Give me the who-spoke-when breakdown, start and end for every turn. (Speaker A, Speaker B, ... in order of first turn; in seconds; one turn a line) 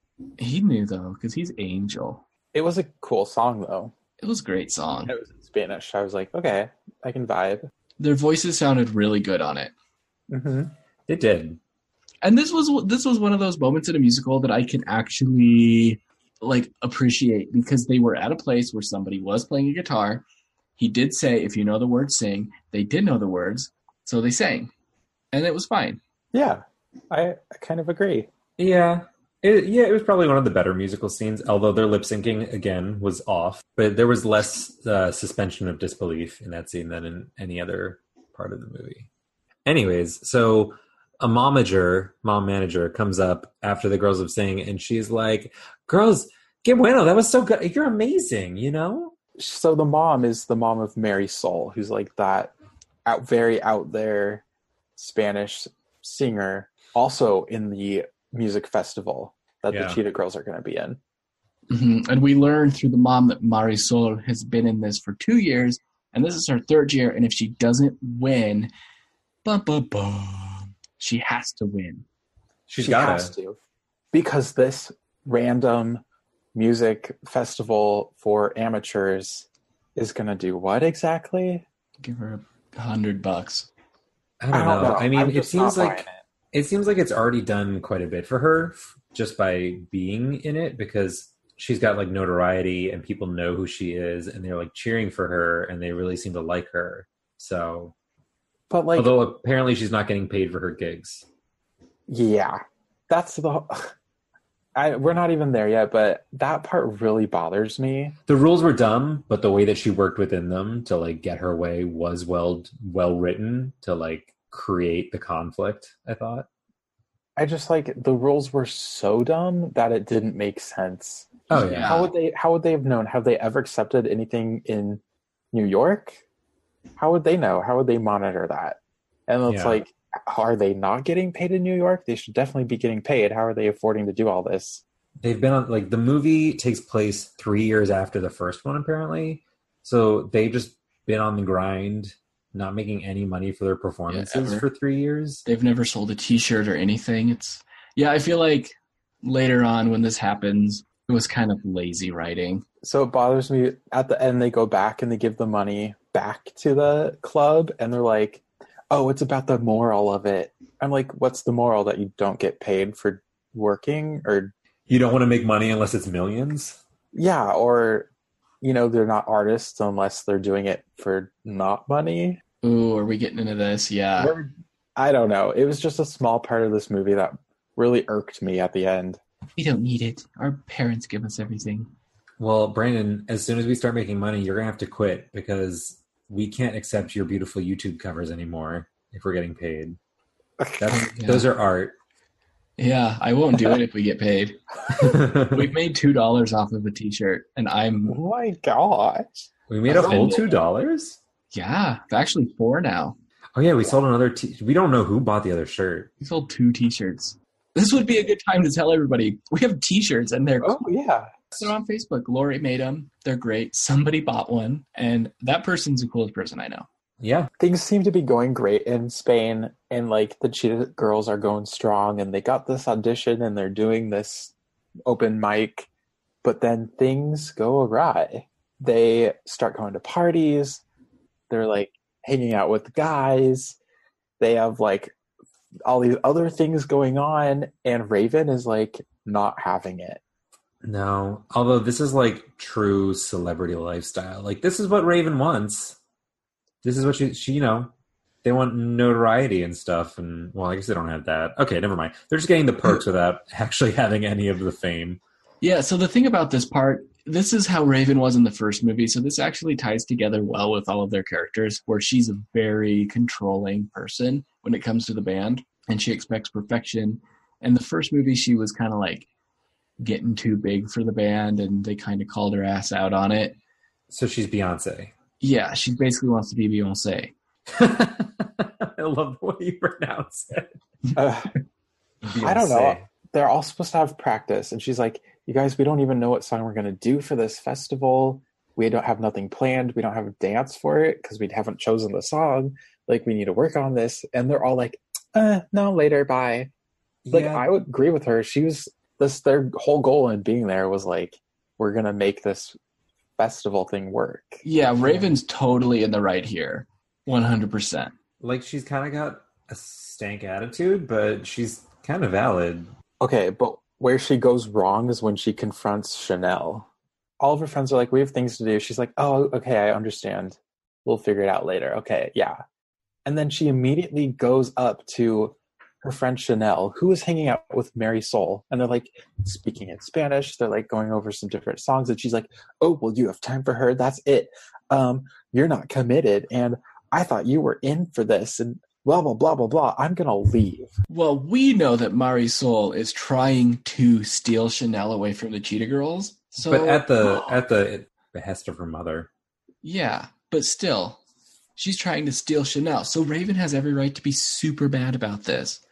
Speaker A: 0.4-2.2
Speaker B: 2.5-3.9
Speaker A: 4.2-5.1
Speaker B: 5.1-7.7
Speaker A: 8.0-9.7
Speaker B: 10.3-10.7
Speaker C: 11.1-11.6
Speaker A: 12.2-24.7
Speaker A: 25.3-26.0
Speaker B: 26.3-28.3
Speaker C: 28.6-39.1
Speaker C: 39.7-49.1
Speaker B: 49.4-52.5
Speaker B: 53.0-54.4
Speaker B: 55.0-61.0
Speaker C: 59.7-60.0
Speaker A: 61.7-68.7
Speaker A: 69.5-72.0
Speaker C: 72.7-73.3
Speaker B: 72.8-73.6
Speaker B: 74.1-76.0
Speaker B: 76.5-81.7
Speaker A: 82.0-83.7
Speaker C: 84.4-97.9
Speaker B: 84.5-86.2
Speaker B: 98.7-99.2
Speaker C: 99.0-101.3
Speaker B: 102.1-103.9
Speaker B: 104.8-108.2
Speaker C: 108.3-116.5
Speaker B: 117.4-125.0
Speaker C: 121.5-122.0
Speaker A: 121.5-122.1
Speaker B: 125.5-126.2
Speaker B: 127.0-134.8
Speaker C: 129.5-129.8
Speaker C: 135.2-145.4
Speaker A: 144.1-144.7
Speaker A: 145.4-152.7
Speaker B: 152.8-164.5
Speaker C: 164.9-166.8
Speaker B: 167.1-168.1
Speaker B: 168.6-172.4
Speaker A: 172.6-174.3
Speaker B: 174.2-179.2
Speaker A: 179.6-181.9
Speaker C: 182.4-190.0
Speaker C: 190.8-191.9
Speaker A: 190.9-191.5
Speaker A: 192.8-198.2
Speaker C: 195.0-195.7
Speaker B: 198.1-200.6
Speaker C: 199.7-201.2
Speaker A: 199.9-200.4
Speaker A: 201.5-203.2
Speaker C: 203.6-206.1
Speaker A: 206.2-210.8
Speaker B: 210.6-211.4
Speaker A: 211.6-216.9
Speaker C: 217.2-217.5
Speaker B: 217.6-224.5
Speaker B: 225.1-225.9
Speaker B: 226.4-230.8
Speaker B: 231.5-233.8
Speaker B: 234.4-235.1
Speaker B: 235.8-240.2
Speaker C: 240.8-246.0
Speaker C: 246.8-247.9
Speaker C: 248.4-255.2
Speaker A: 255.6-269.3
Speaker A: 270.0-273.6
Speaker C: 274.1-275.1
Speaker A: 275.4-277.3
Speaker C: 277.7-280.7
Speaker B: 281.2-281.5
Speaker C: 282.2-283.1
Speaker B: 282.4-296.7
Speaker C: 297.2-297.7
Speaker B: 297.3-302.8
Speaker B: 303.4-305.3
Speaker A: 304.6-308.1
Speaker C: 308.4-312.9
Speaker B: 313.2-316.9
Speaker B: 317.4-322.6
Speaker B: 323.2-340.9
Speaker A: 341.1-347.6
Speaker C: 346.6-349.3
Speaker A: 349.8-351.2
Speaker A: 351.8-355.8